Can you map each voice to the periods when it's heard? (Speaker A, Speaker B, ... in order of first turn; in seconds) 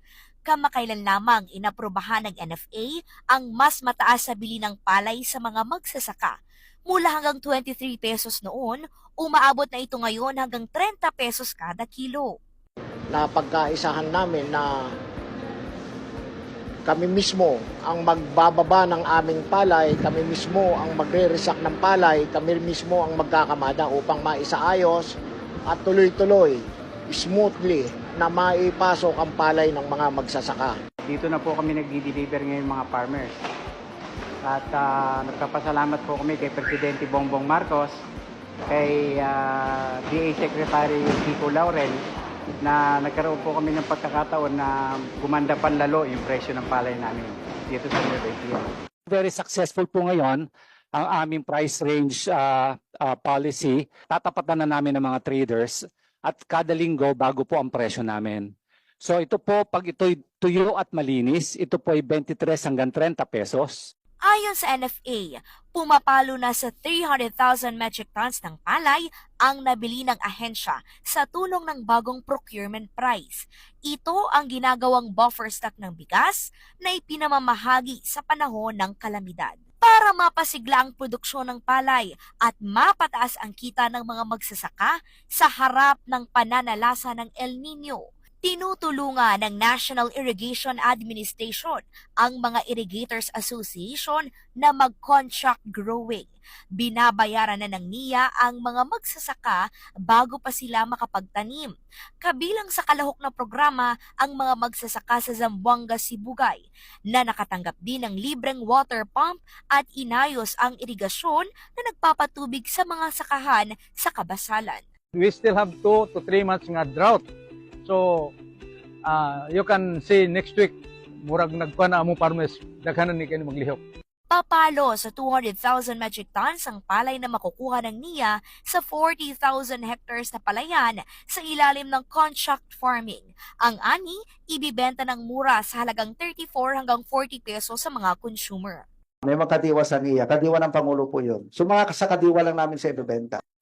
Speaker A: 0.5-6.3, 6.9-12.3, 64.2-101.7, 102.2-106.6, 107.1-114.8, 124.3-138.8
Speaker B: 13.1-14.7, 16.9-25.1, 25.7-30.7
Speaker C: 31.1-33.4, 34.4-37.9, 38.7-42.0, 42.6-48.7
Speaker D: 49.1-58.5, 59.0-63.8
Speaker E: 115.2-117.2, 117.8-118.3, 119.0-120.7, 121.2-123.8
Speaker F: 139.2-143.4